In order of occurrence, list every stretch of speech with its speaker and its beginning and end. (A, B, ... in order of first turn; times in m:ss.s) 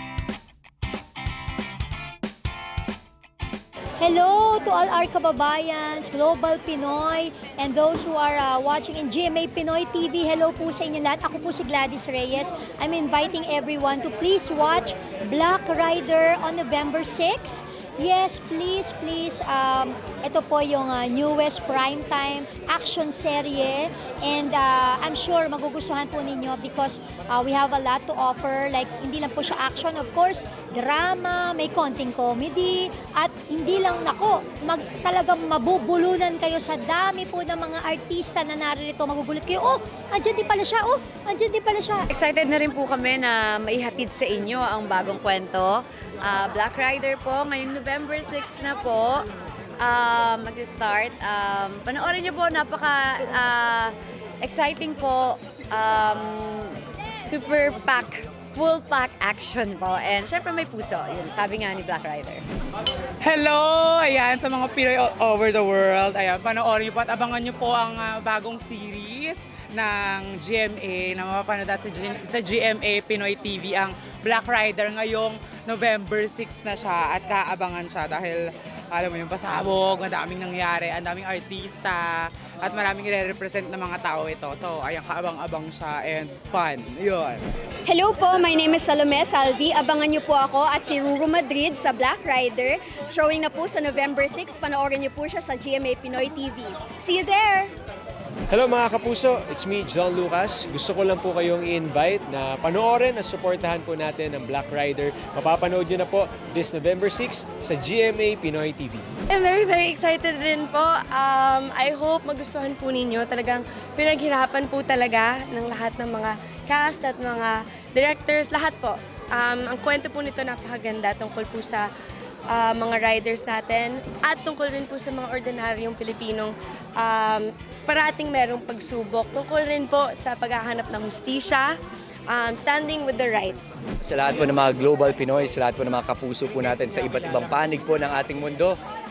0:04.0-0:42.0 A
0:42.1-0:49.2 B
0:49.8-1:02.4 B
1:03.2-1:27.5 C
1:27.9-1:37.7 D
1:38.5-1:49.1 E
1:49.3-2:01.9 F
2:02.5-2:11.7 F
2:12.3-2:13.6 F
2:14.0-2:18.8 G